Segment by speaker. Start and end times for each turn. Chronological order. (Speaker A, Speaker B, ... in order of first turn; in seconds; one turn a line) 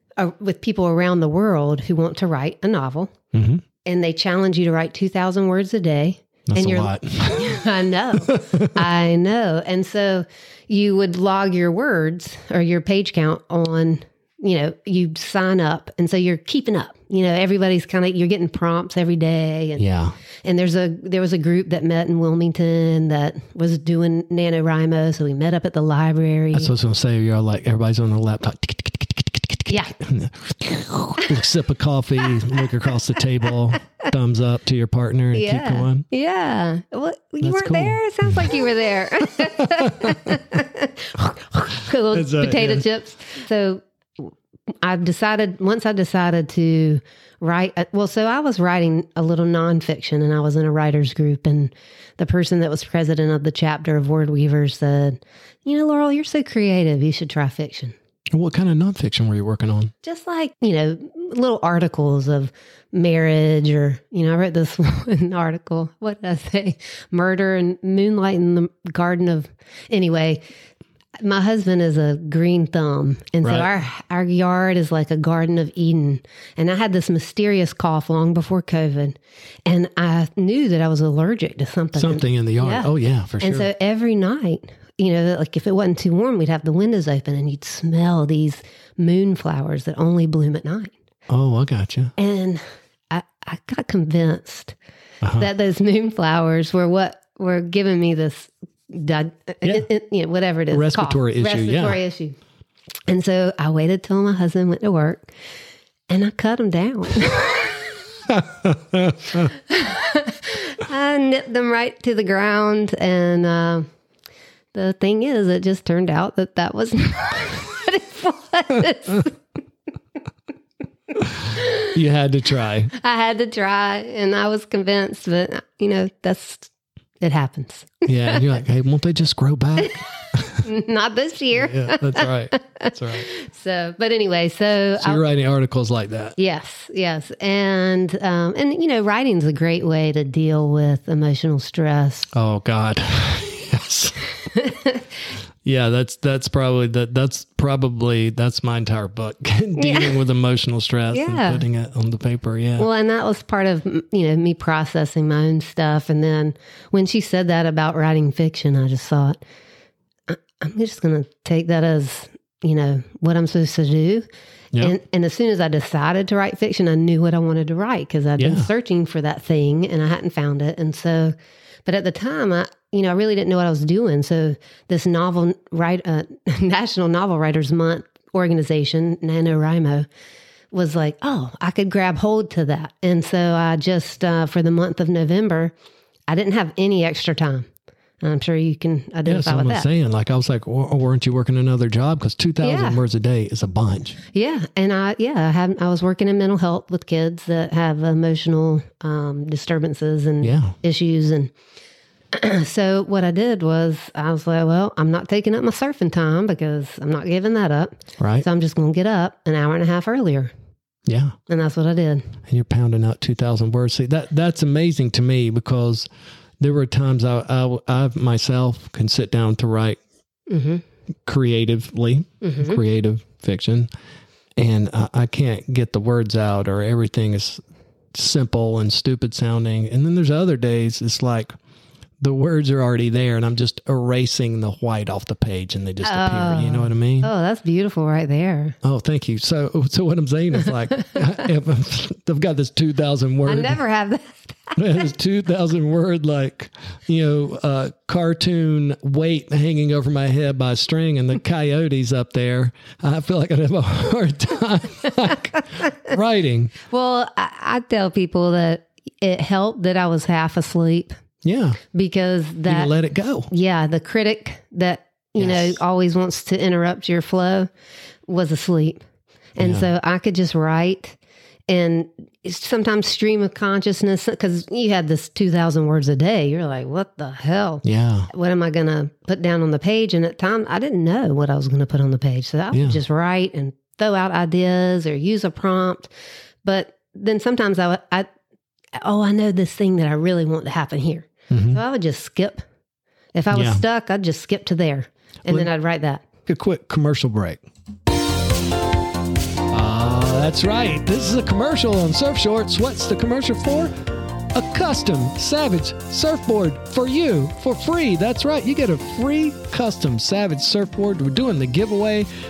Speaker A: 0.2-3.1
Speaker B: 3.3-3.6
Speaker A: 3.9-19.9
Speaker B: 6.5-7.6
Speaker B: 8.3-8.7
Speaker B: 19.8-20.2
Speaker A: 20.4-26.7
Speaker B: 26.5-36.0
Speaker A: 29.7-29.9
Speaker A: 35.3-58.0
Speaker B: 37.4-38.6
Speaker B: 39.4-40.4
Speaker B: 42.1-42.9
Speaker B: 58.3-59.9
Speaker A: 60.0-70.4
Speaker A: 71.2-90.9
Speaker B: 73.4-73.7
Speaker B: 82.0-83.7
Speaker B: 91.3-92.1
Speaker A: 92.2-94.8
Speaker B: 95.2-95.5
Speaker A: 95.3-102.4
Speaker B: 100.7-102.0
Speaker A: 103.1-105.3
Speaker A: 106.1-107.8
Speaker B: 108.3-109.5
Speaker A: 109.5-113.9
Speaker A: 114.7-119.3
Speaker B: 121.2-122.9
Speaker A: 121.5-121.9
Speaker A: 122.9-126.7
Speaker A: 127.2-128.5
Speaker B: 128.1-130.7
Speaker A: 130.6-135.2
Speaker B: 131.6-133.3
Speaker B: 135.0-136.4
Speaker A: 136.4-142.3
Speaker B: 142.3-144.2
Speaker A: 144.6-145.0
Speaker B: 145.6-152.9
Speaker A: 149.8-150.2
Speaker A: 151.1-151.6
Speaker A: 152.8-159.4
Speaker A: 160.3-180.1
Speaker B: 168.4-168.7
Speaker A: 180.7-185.7
Speaker A: 186.3-187.7
Speaker A: 188.2-189.9
Speaker B: 189.2-194.2
Speaker A: 192.6-193.0
Speaker A: 194.3-201.5
Speaker B: 200.4-200.8
Speaker A: 202.3-210.5
Speaker B: 208.2-208.5
Speaker B: 211.1-211.3
Speaker A: 211.5-212.3
Speaker B: 212.5-216.1
Speaker B: 216.6-220.0
Speaker A: 220.5-220.8
Speaker B: 221.3-223.9
Speaker A: 222.4-222.8
Speaker B: 224.6-227.6
Speaker B: 228.1-231.5
Speaker B: 232.2-237.3
Speaker A: 236.0-238.8
Speaker B: 238.8-243.8
Speaker A: 243.5-244.8
Speaker B: 244.8-256.8
Speaker A: 256.9-261.2
Speaker B: 261.4-261.8
Speaker A: 261.9-262.9
Speaker B: 262.7-263.5
Speaker A: 263.5-267.7
Speaker B: 265.4-265.8
Speaker A: 268.3-269.0
Speaker A: 269.6-271.2
Speaker B: 269.6-269.9
Speaker A: 271.7-286.1
Speaker B: 277.8-278.3
Speaker B: 282.7-283.0
Speaker A: 286.6-288.3
Speaker A: 288.9-292.6
Speaker B: 291.5-291.8
Speaker A: 293.4-296.2
Speaker B: 293.5-293.8
Speaker B: 296.5-297.6
Speaker B: 299.7-303.9
Speaker B: 304.5-312.3